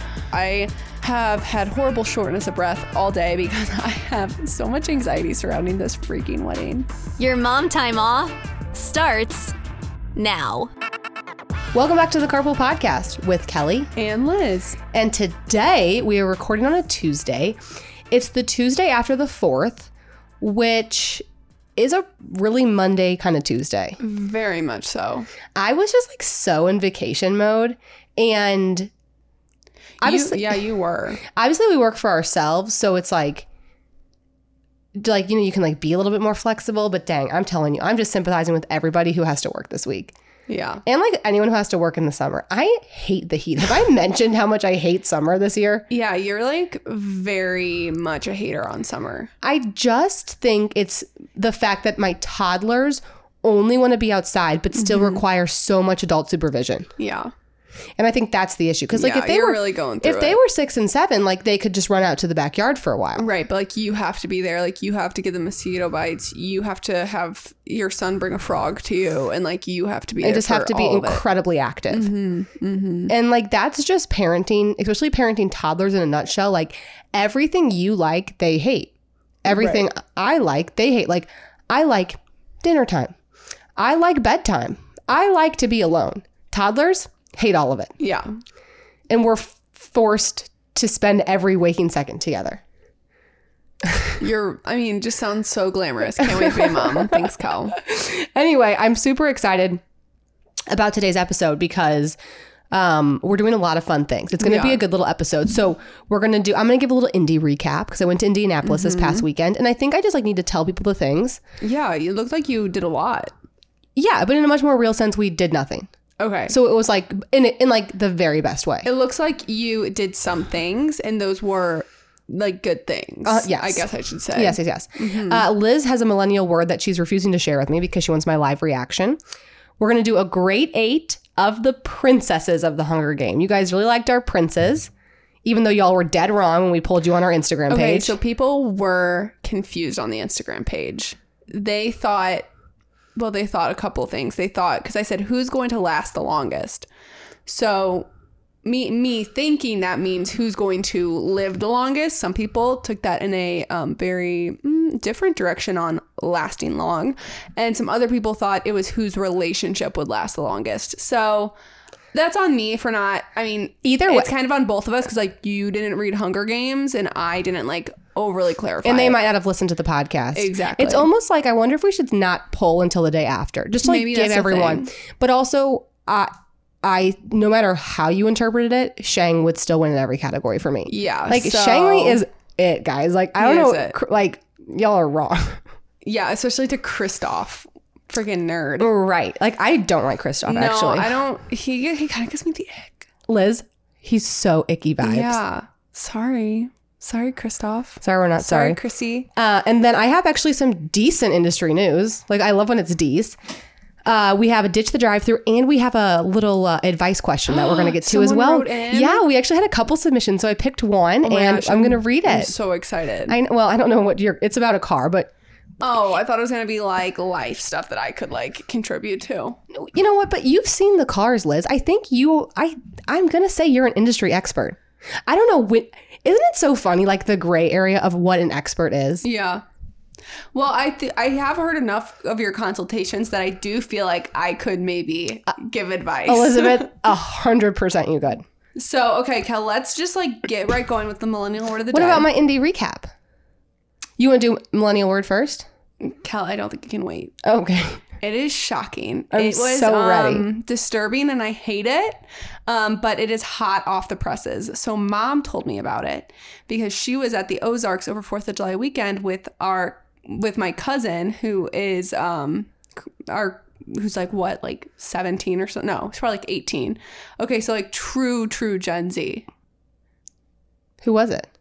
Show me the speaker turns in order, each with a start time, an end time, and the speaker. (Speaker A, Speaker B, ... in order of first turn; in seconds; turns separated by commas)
Speaker A: 0.3-6.9, Speaker B: 7.2-9.5, Speaker B: 10.1-10.7, Speaker C: 11.7-13.9, Speaker A: 13.9-14.8, Speaker C: 14.9-17.6, Speaker C: 18.1-19.9, Speaker C: 20.4-21.2, Speaker C: 21.8-24.0, Speaker A: 24.0-25.3, Speaker C: 25.5-28.9, Speaker C: 30.0-30.6, Speaker A: 30.0-31.2, Speaker C: 31.2-33.5, Speaker C: 35.0-40.1, Speaker A: 40.5-40.8, Speaker C: 40.8-45.9, Speaker A: 45.9-49.3, Speaker C: 49.4-56.9, Speaker A: 54.7-55.2, Speaker A: 57.0-57.3, Speaker C: 58.0-63.3, Speaker A: 58.9-60.4, Speaker A: 63.1-71.2, Speaker C: 70.2-72.1, Speaker A: 71.9-73.1, Speaker C: 73.1-78.9, Speaker C: 79.4-83.1, Speaker A: 79.5-79.8, Speaker C: 83.8-87.9, Speaker A: 88.0-88.3, Speaker C: 89.1-92.6, Speaker A: 94.2-97.8, Speaker C: 96.3-97.2, Speaker C: 97.7-99.8, Speaker C: 100.7-102.2, Speaker C: 102.7-111.4, Speaker A: 104.4-104.8, Speaker A: 108.6-109.2, Speaker A: 111.6-113.3, Speaker C: 114.0-115.9, Speaker A: 116.2-116.5, Speaker C: 116.5-118.9, Speaker A: 118.8-125.5, Speaker C: 123.2-129.2, Speaker C: 129.8-134.9, Speaker C: 135.4-138.2, Speaker A: 137.7-142.5, Speaker A: 143.2-146.9, Speaker A: 147.4-148.1, Speaker A: 148.6-161.5, Speaker A: 162.1-169.2, Speaker C: 163.8-164.3, Speaker C: 168.8-176.3, Speaker A: 170.3-171.1, Speaker A: 173.8-174.9, Speaker C: 176.8-185.6, Speaker A: 180.8-182.2, Speaker A: 183.4-184.0, Speaker A: 186.0-188.9, Speaker C: 188.8-191.2, Speaker A: 190.4-193.1, Speaker C: 193.3-195.4, Speaker A: 195.0-199.3, Speaker C: 198.0-198.8, Speaker C: 199.3-203.3, Speaker C: 204.0-212.5, Speaker A: 207.5-209.2, Speaker A: 211.2-213.3, Speaker C: 213.3-215.3, Speaker A: 215.8-219.6, Speaker C: 219.7-229.2, Speaker A: 229.2-229.6, Speaker A: 230.5-236.9, Speaker C: 236.2-238.4, Speaker A: 238.8-242.3, Speaker C: 241.9-243.1, Speaker C: 244.2-245.7, Speaker A: 246.0-247.4, Speaker C: 247.4-248.0, Speaker A: 248.2-262.7, Speaker C: 249.3-250.5, Speaker A: 263.3-269.4, Speaker C: 271.0-271.5